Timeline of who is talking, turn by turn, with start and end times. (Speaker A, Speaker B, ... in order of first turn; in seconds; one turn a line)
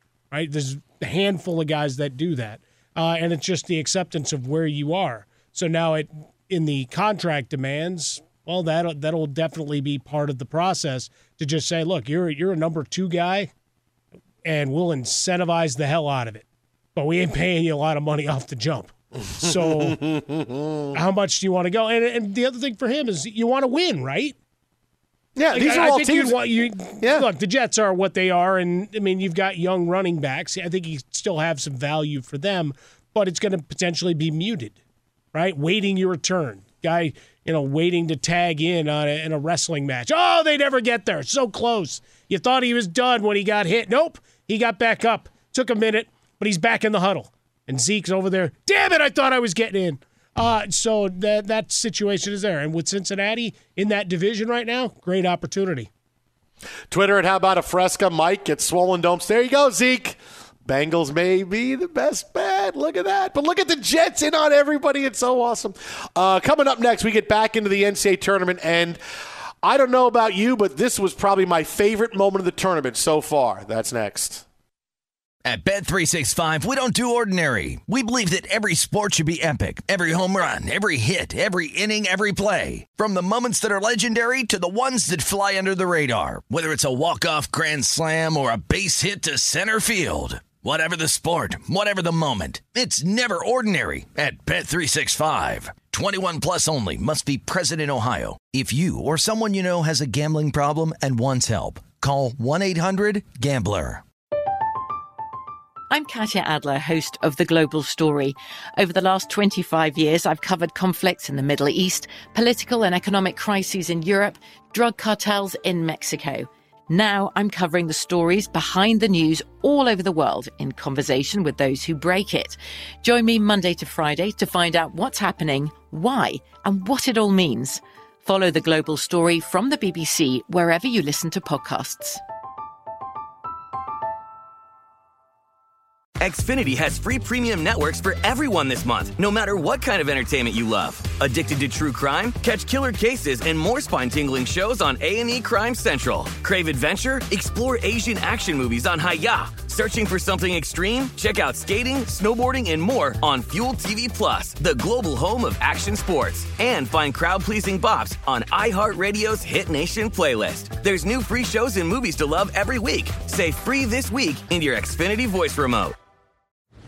Speaker A: 0.3-13.5
Speaker A: 14.4-20.0
Speaker B: 19.7-20.9
Speaker A: 20.9-24.3
Speaker B: 25.4-26.4
Speaker A: 25.5-34.8
Speaker B: 27.0-27.2
Speaker A: 35.3-55.9
Speaker B: 56.9-69.0
Speaker B: 69.6-74.4
Speaker C: 75.4-104.0
Speaker D: 105.9-132.2
Speaker E: 136.2-165.9